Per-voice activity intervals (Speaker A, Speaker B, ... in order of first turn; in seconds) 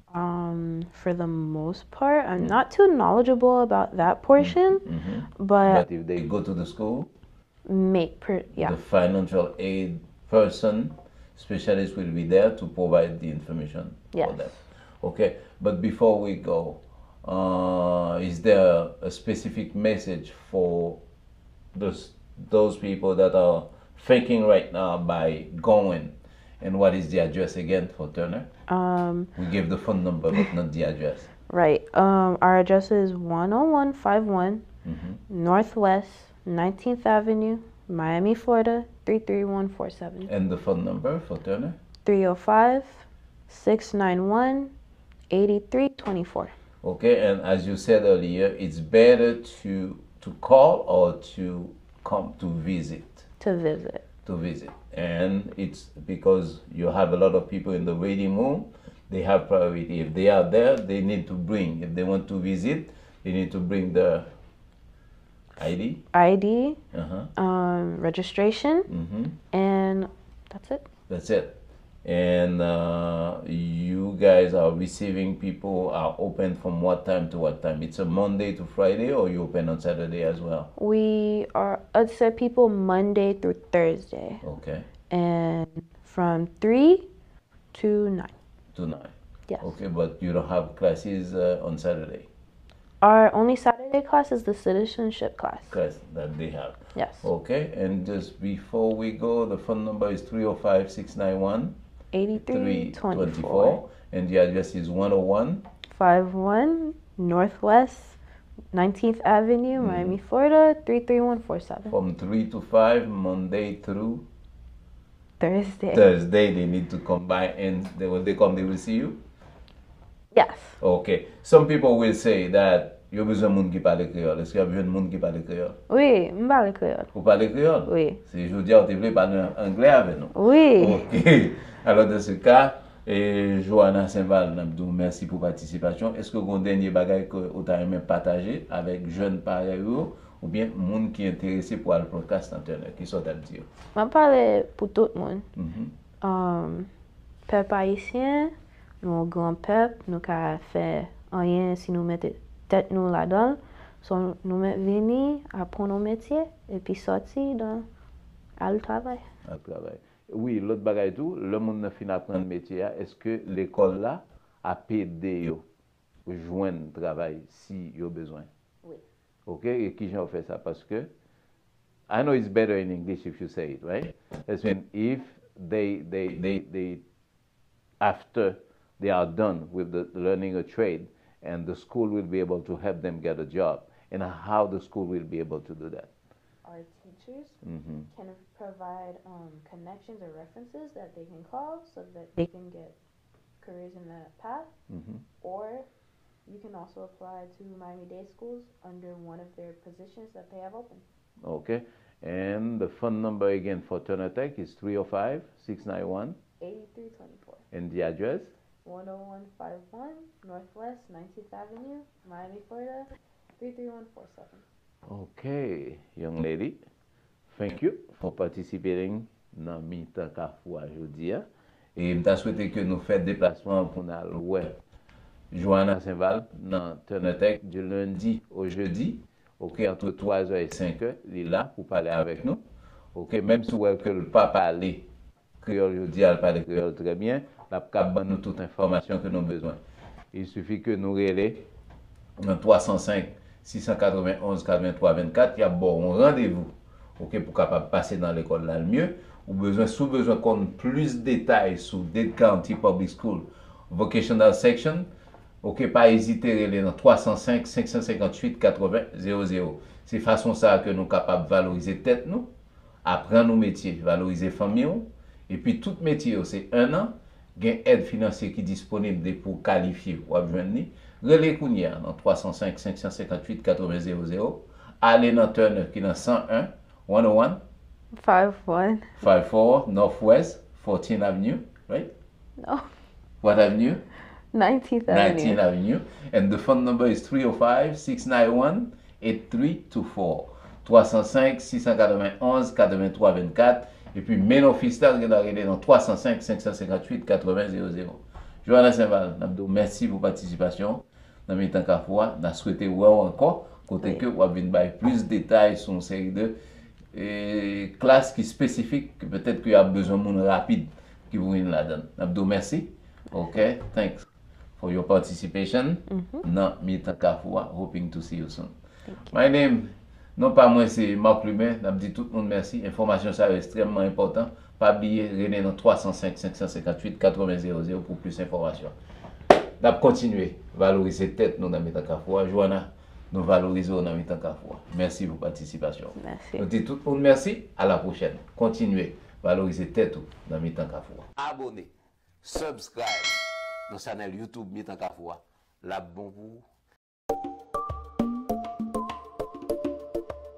Speaker A: 0.1-4.8, 5.4-5.8, 7.7-8.8, 14.1-14.6, 28.7-29.3, 31.5-34.6, 35.3-40.3, 42.0-44.7, 45.3-46.5, 53.4-54.0, 66.1-66.8, 67.3-68.9, 69.5-70.8, 80.8-84.4, 85.1-87.1, 87.7-88.3, 93.0-95.8, 96.9-97.3, 102.1-103.8, 105.9-108.2, 108.7-111.9, 115.4-116.0, 120.3-120.8, 125.9-127.1, 127.8-128.2, 130.3-131.0, 143.9-145.5, 146.2-146.9, 147.5-157.9, 158.6-159.2, 186.6-187.6, 188.1-192.9, 193.6-194.7, 195.4-195.8, 196.4-201.0, 206.6-207.6, 208.8-214.6, 278.1-279.2, 282.6-282.9, 284.5-285.6, 316.1-316.4, 336.1-336.7
Speaker B: 4.4-7.1, 8.6-21.0, 21.7-28.5, 29.4-31.3, 34.8-35.2, 40.3-41.8, 46.8-53.2, 54.2-64.3, 65.6-66.0, 66.9-67.3, 68.9-69.4, 71.1-80.7, 84.4-84.9, 88.7-92.3, 95.7-101.8, 102.3-105.6, 109.8-110.2, 111.9-114.2, 115.9-119.2, 120.8-125.8, 127.1-143.7, 145.5-145.9, 159.4-165.6, 166.2-168.5, 169.4-171.1, 172.1-177.0, 178.0-186.1, 187.6-188.1, 194.9-195.2, 201.4-206.4, 207.7-208.5, 215.1-216.8, 217.5-224.8, 225.5-232.6, 233.1-235.1, 235.6-239.8, 240.3-241.6, 242.4-255.1, 255.6-262.5, 263.0-277.6, 279.2-282.1, 283.4-284.0, 285.1-306.6, 307.1-314.3, 314.8-318.7, 319.2-328.9, 329.8-341.9, 342.4-346.6